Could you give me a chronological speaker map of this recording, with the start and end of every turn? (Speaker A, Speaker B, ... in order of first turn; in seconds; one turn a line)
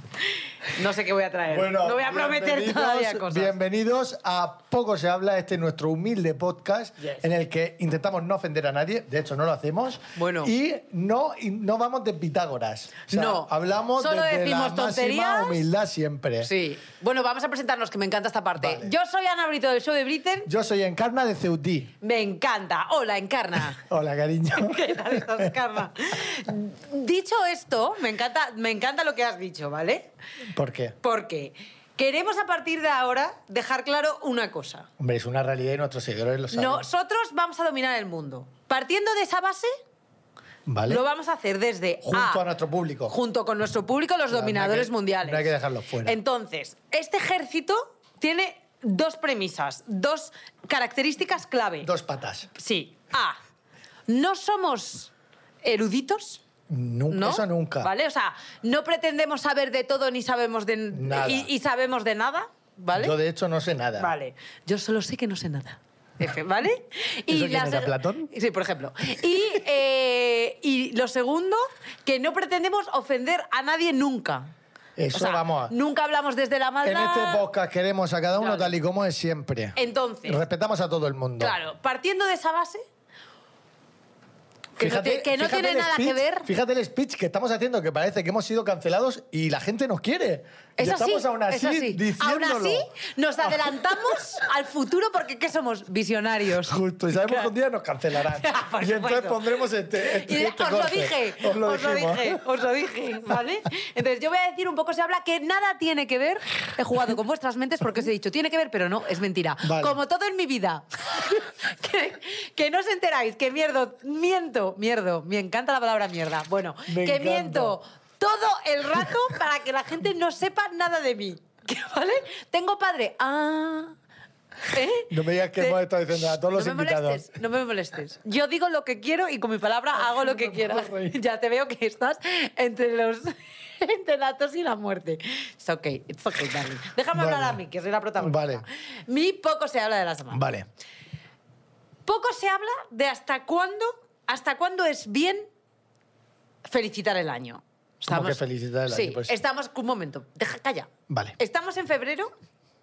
Speaker A: 0.6-3.5
Speaker B: 1.5-16.5
Speaker A: 10.2-10.5
Speaker A: 13.1-15.6
Speaker A: 16.4-20.5
Speaker B: 18.6-18.9
Speaker B: 20.5-21.9
Speaker A: 22.0-23.8
Speaker B: 23.8-25.5
Speaker A: 24.6-30.1
Speaker B: 30.5-31.0
Speaker A: 31.0-34.9
Speaker B: 35.0-36.9
Speaker A: 36.5-39.7
Speaker B: 40.7-41.0
Speaker A: 40.9-42.4
Speaker B: 42.0-43.1
Speaker A: 43.1-45.5
Speaker B: 44.3-46.2
Speaker A: 46.0-51.9
Speaker B: 51.8-52.5
Speaker A: 52.5-53.4
Speaker A: 54.1-55.1
Speaker A: 55.6-56.4
Speaker B: 56.7-57.9
Speaker A: 57.1-63.2
Speaker B: 60.9-61.5
Speaker B: 62.9-64.1
Speaker A: 64.0-74.5
Speaker B: 67.3-68.3
Speaker B: 75.0-75.7
Speaker A: 75.1-77.5
Speaker B: 76.8-81.5
Speaker A: 78.4-78.7
Speaker A: 79.8-80.4
Speaker A: 81.4-82.8
Speaker A: 84.8-86.5
Speaker B: 84.8-92.9
Speaker A: 90.8-97.5
Speaker B: 93.4-94.3
Speaker B: 96.6-102.4
Speaker A: 98.2-99.5
Speaker A: 100.0-124.0
Speaker B: 109.6-110.0
Speaker B: 116.9-117.8
Speaker A: 124.7-140.5
Speaker B: 125.1-127.3
Speaker B: 129.9-131.2
Speaker B: 137.1-137.6
Speaker B: 138.2-138.7
Speaker B: 140.3-140.7
Speaker A: 142.1-145.5
Speaker A: 146.7-152.3
Speaker B: 148.1-149.4
Speaker B: 151.1-151.4